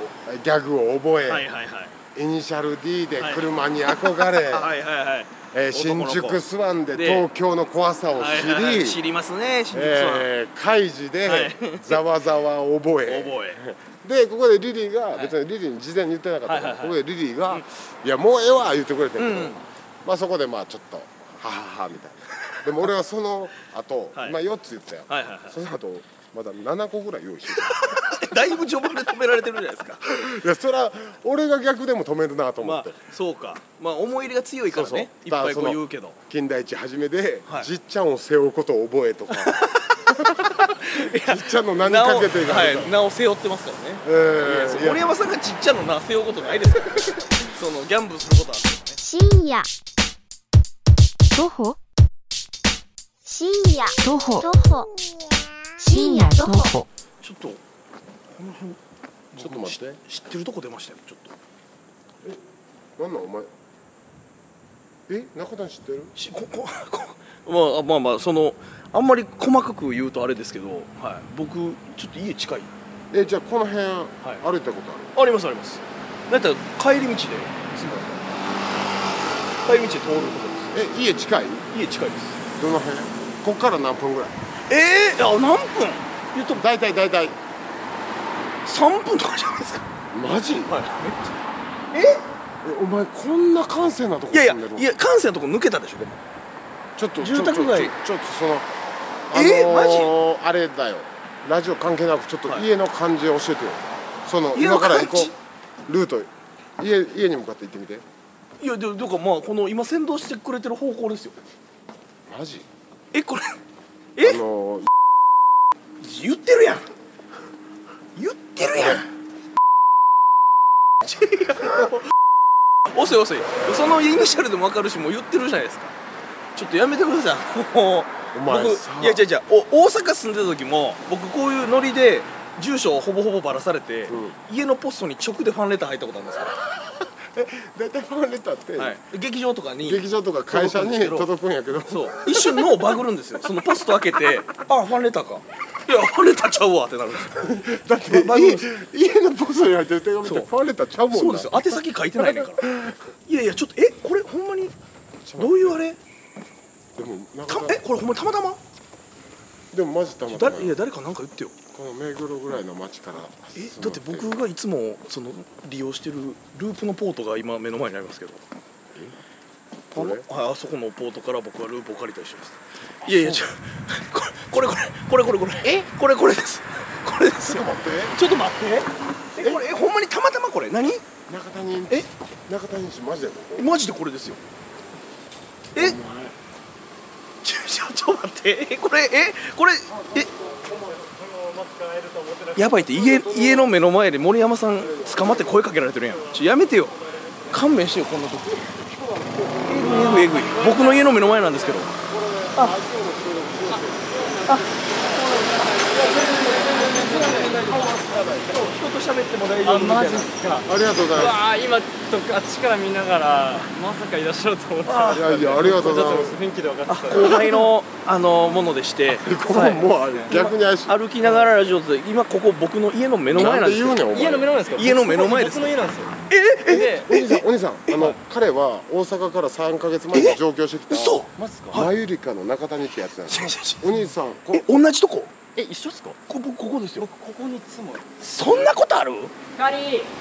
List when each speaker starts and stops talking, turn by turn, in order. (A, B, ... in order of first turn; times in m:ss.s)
0:00.2-0:01.5 A
0:01.3-0:02.0 B
0:02.2-0:04.8 A
0:03.2-0:06.4 B
0:05.5-0:09.0 A
0:06.9-0:07.3 B
0:08.2-0:10.3 B
0:09.7-0:28.6 A
0:11.2-0:12.0 B
0:13.1-0:13.6 B
0:16.5-0:17.6 B
0:19.2-0:19.6 B
0:25.1-0:25.6 B
0:27.6-0:30.1 B
0:30.1-0:33.0 A
0:32.6-0:36.2 B
0:34.7-0:43.0 A
0:39.3-0:49.0 B
0:44.0-0:45.1 A
0:49.0-0:49.7 C
0:51.3-0:51.8 D
0:53.2-0:54.9 C
0:54.0-0:54.6 D
0:55.8-0:56.7 C
0:55.8-0:56.9 D
0:57.2-0:57.6 B
0:58.3-0:58.8 B
0:59.3-1:01.4 B
0:59.4-1:00.0 A
1:03.0-1:03.5 A
1:05.1-1:06.1 A
1:06.2-1:12.7 B
1:13.1-1:15.2 A
1:15.1-1:17.6 B
1:17.7-1:18.3 A
1:19.6-1:20.9 B
1:20.7-1:21.7 A
1:21.7-1:22.4 B
1:22.6-1:24.4 A
1:24.7-1:26.6 B
1:26.5-1:27.4 A
1:28.7-1:29.9 B
1:30.1-1:30.8 A
1:30.5-1:31.4 B
1:31.9-1:32.2 B
1:32.6-1:34.9 A
1:34.3-1:36.2 B
1:37.0-1:38.7 A
1:37.2-1:37.9 B
1:39.3-1:45.3 A
1:39.3-1:40.2 B
1:44.5-1:45.4 B
1:45.9-1:48.0 A
1:48.6-1:51.4 B
1:52.3-1:52.7 A
1:53.1-1:53.6 B
1:54.2-1:54.4 B
1:54.2-1:54.9 A
1:56.0-1:56.9 B
1:58.2-1:59.1 B
1:58.7-1:59.0 A
2:01.0-2:01.9 B
2:02.9-2:06.0 B
2:06.6-2:16.6 B
2:08.3-2:09.3 A
2:14.1-2:14.4 A
2:16.7-2:19.0 A
2:18.8-2:21.3 B
2:19.8-2:23.0 A
2:21.9-2:28.7 B
2:27.3-2:33.1 A
2:30.2-2:30.5 B
2:31.1-2:32.7 B
2:33.3-2:34.8 B
2:35.2-2:35.8 A
2:35.4-2:36.0 B
2:37.0-2:37.8 A
2:37.5-2:38.6 B
2:39.7-2:40.8 A
2:40.3-2:41.6 B
2:41.7-2:44.4 A
2:43.6-2:48.4 B
2:49.9-2:50.3 A
2:49.9-3:01.0 B
2:53.0-2:53.4 A
2:55.6-2:55.9 A
2:57.4-2:58.2 A
2:59.4-2:59.6 A
3:01.3-3:03.8 A
3:03.6-3:04.4 B
3:05.8-3:06.4 A
3:07.4-3:10.3 B
3:09.9-3:11.1 A
3:10.3-3:13.6 E
3:12.6-3:18.7 B
3:13.1-3:13.7 A
3:14.8-3:15.6 A
3:15.9-3:17.7 E
3:18.7-3:20.8 A
3:19.6-3:21.9 B
3:19.8-3:21.9 E
3:21.9-3:24.6 A
3:23.7-3:28.6 E
3:24.5-3:25.7 B
3:25.9-3:28.7 A
3:26.9-3:27.5 B
3:28.4-3:30.3 B
3:29.6-3:37.7 E
3:30.6-3:31.4 A
3:34.9-3:35.3 B
3:35.0-3:36.4 A
3:36.9-3:44.0 B
3:39.1-3:41.4 A
3:39.9-3:40.3 E
3:43.3-3:44.6 A
3:44.1-3:47.1 E
3:44.8-3:45.7 B
3:46.3-3:48.1 B
3:47.1-3:54.7 A
3:50.1-3:51.9 B
3:51.4-3:51.8 E
3:53.3-3:53.9 B
3:54.5-3:55.4 B
3:55.6-3:56.2 E
3:56.3-3:57.1 B
3:57.0-3:58.2 E
3:58.2-3:59.3 B
3:59.6-4:00.1 E